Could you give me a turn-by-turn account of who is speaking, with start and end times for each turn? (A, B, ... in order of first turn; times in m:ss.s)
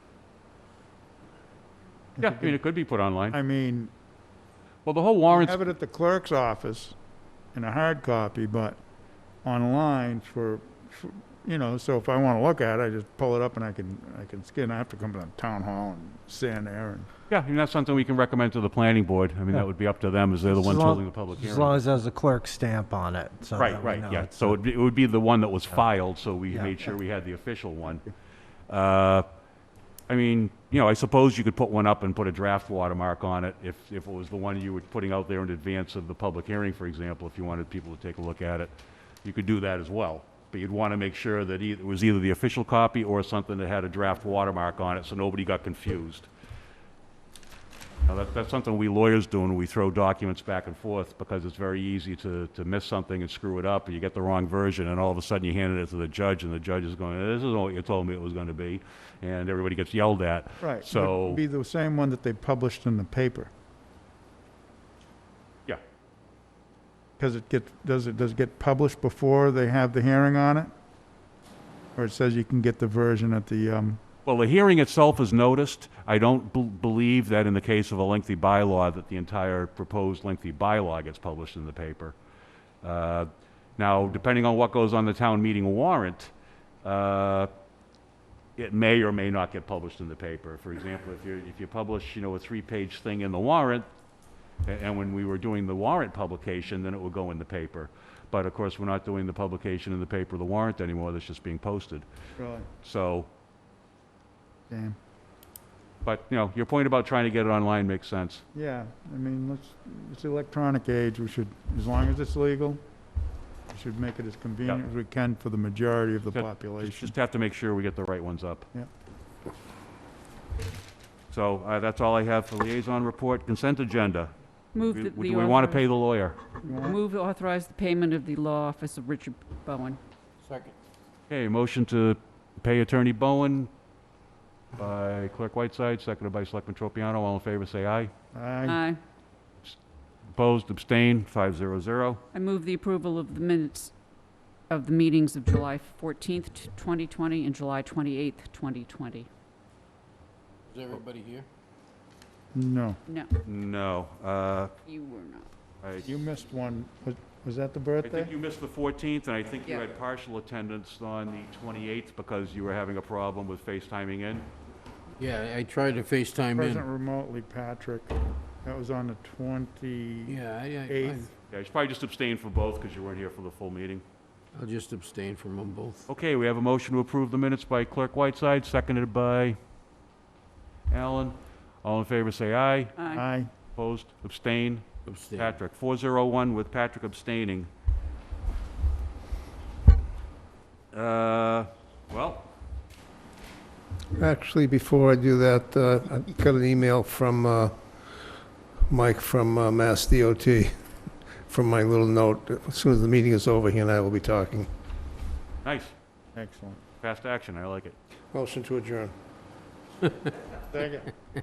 0:02.2-0:02.5 A
0:02.2-0:03.4 B
0:03.3-0:03.9 A
0:04.8-0:05.7 B
0:05.3-0:07.0 A
0:07.5-0:08.8 A
0:09.4-0:17.1 A
0:17.3-0:21.8 B
0:20.4-0:24.6 C
0:23.6-0:28.1 B
0:28.7-0:29.3 B
0:30.1-0:38.7 B
0:39.2-0:46.3 B
0:48.0-1:01.4 B
1:00.6-1:03.5 A
1:07.2-1:10.7 A
1:12.0-1:14.0 A
1:14.2-1:22.2 B
1:22.8-1:26.3 B
1:26.8-1:27.5 B
1:28.6-1:33.9 B
1:34.6-1:42.1 B
1:42.4-1:42.7 A
1:42.8-1:43.3 B
1:44.7-1:45.0 A
1:46.0-1:48.4 B
1:48.5-1:52.8 A
1:53.7-1:57.1 A
1:56.3-1:58.7 B
2:01.3-2:06.4 B
2:04.7-2:05.8 D
2:06.6-2:07.0 A
2:06.6-2:10.0 D
2:10.4-2:10.7 E
2:11.3-2:13.7 B
2:14.8-2:18.1 B
2:18.3-2:18.8 A
2:18.6-2:19.0 D
2:20.3-2:22.2 B
2:22.3-2:23.9 D
2:24.7-2:29.3 D
2:30.7-2:31.5 E
2:32.5-2:33.0 A
2:33.1-2:33.3 D
2:33.4-2:34.7 B
2:34.8-2:35.5 D
2:35.8-2:36.1 B
2:36.0-2:38.3 A
2:38.0-2:44.5 B
2:45.2-2:46.8 E
2:46.5-2:51.3 A
2:50.3-2:51.3 E
2:51.5-2:54.0 B
2:54.5-2:56.0 E
2:56.1-2:59.6 B
3:00.9-3:03.0 B
3:03.0-3:03.2 D
3:03.1-3:03.5 A
3:03.7-3:07.7 B
3:05.1-3:05.6 E
3:10.9-3:12.5 B
3:14.1-3:18.2 F
3:18.9-3:20.9 F
3:21.4-3:24.7 F
3:25.6-3:25.9 B
3:26.3-3:26.8 A
3:27.0-3:27.9 B
3:28.3-3:29.1 F
3:30.7-3:31.1 A